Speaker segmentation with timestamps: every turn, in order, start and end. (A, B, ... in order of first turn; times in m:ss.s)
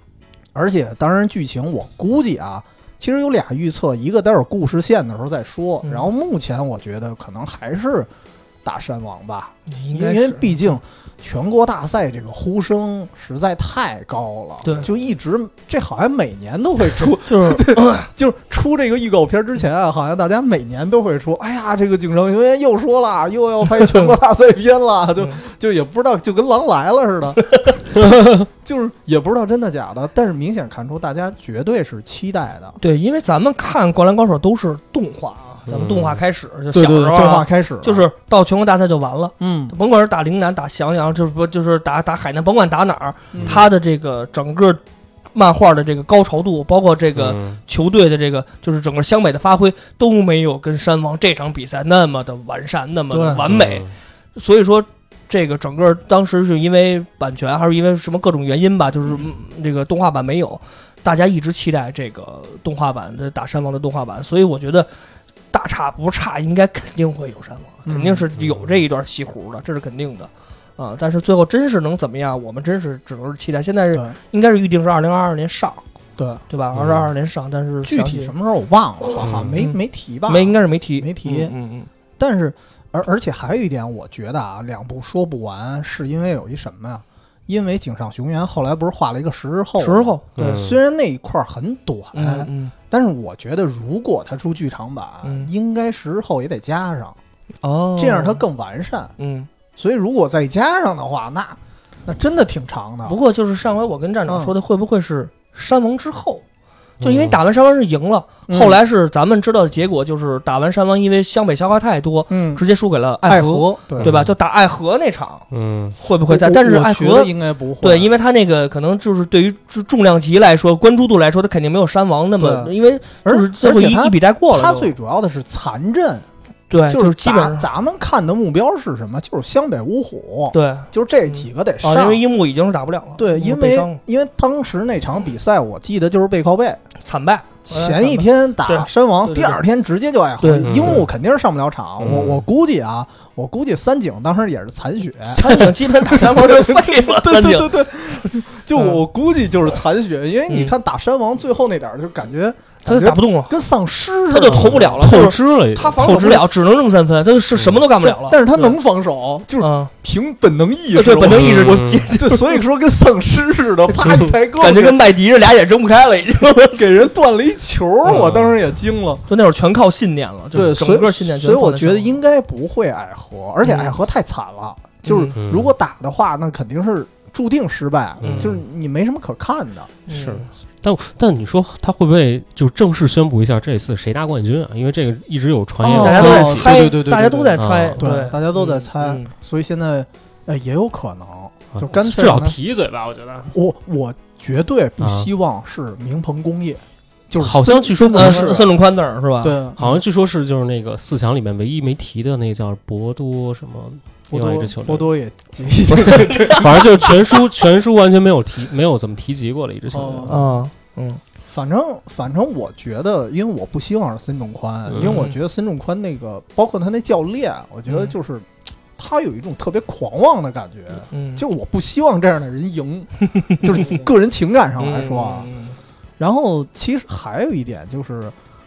0:00.5-0:08.1 A
0:08.6-0:32.8 A
0:09.7-0:10.7 B
0:14.6-0:14.9 B
0:17.2-0:18.1 B
0:27.4-0:27.8 B
0:32.8-0:44.8 B
0:35.7-0:36.2 C
0:36.7-0:38.1 A
0:39.4-0:39.8 A
0:43.3-0:43.7 A
0:43.4-0:43.6 C
0:45.3-1:04.9 B
0:47.2-0:47.6 C
0:53.1-0:53.4 A
0:53.5-0:53.9 C
1:05.5-1:15.8 B
1:07.8-1:08.2 A
1:16.2-1:16.4 A
1:16.5-1:18.3 B
1:16.8-1:17.1 C
1:17.9-1:21.5 A
1:19.2-1:19.6 C
1:19.6-1:21.9 B
1:22.2-1:37.2 A
1:29.8-1:30.6 B
1:30.4-1:30.8 C
1:32.1-1:32.7 B
1:35.2-1:35.5 B
1:37.6-1:38.4 B
1:38.0-1:39.1 A
1:39.2-1:39.5 B
1:39.8-1:43.2 A
1:43.0-1:46.4 B
1:44.3-1:44.5 A
1:47.0-1:47.4 C
1:47.0-2:04.9 B
1:48.5-1:48.8 A
1:52.3-1:52.6 A
1:53.2-1:54.1 A
1:54.0-1:54.3 C
1:55.5-1:56.0 C
1:56.3-1:58.1 A
2:02.4-2:06.3 A
2:06.7-2:07.7 B
2:06.9-2:12.2 A
2:10.5-2:14.0 B
2:13.2-2:16.8 A
2:17.0-2:19.6 B
2:17.7-2:35.3 A
2:20.4-2:21.0 B
2:20.6-2:21.1 C
2:22.0-2:22.4 C
2:25.3-2:29.0 B
2:30.5-2:30.7 B
2:32.8-2:33.6 B
2:34.3-2:38.8 B
2:34.5-2:36.1 C
2:36.0-2:36.5 A
2:38.0-2:45.0 A
2:39.6-2:39.9 B
2:40.9-2:42.6 B
2:41.3-2:42.1 C
2:43.9-2:47.1 B
2:46.7-2:49.2 A
2:48.1-2:48.6 C
2:49.3-2:52.1 B
2:50.5-2:59.9 A
2:53.6-2:53.9 B
2:55.0-2:55.3 B
2:55.4-2:55.7 C
2:58.2-2:58.6 B
2:58.2-2:58.6 C
3:00.1-3:00.5 B
3:00.1-3:06.9 C
3:05.8-3:12.6 A
3:06.0-3:09.3 B
3:07.6-3:08.0 C
3:11.7-3:13.5 C
3:13.5-3:18.7 A
3:15.0-3:15.3 C
3:17.4-3:18.6 C
3:18.0-3:19.6 B
3:19.4-3:20.0 A
3:19.8-3:25.1 C
3:24.3-3:27.1 A
3:25.9-3:27.1 B
3:25.9-3:30.5 C
3:29.9-3:30.5 A
3:30.3-3:31.2 B
3:31.5-3:45.5 A
3:34.9-3:35.2 C
3:34.9-3:35.4 B
3:37.9-3:38.1 B
3:41.1-3:41.4 B
3:43.3-3:44.0 B
3:44.8-3:45.8 B
3:46.2-3:48.3 A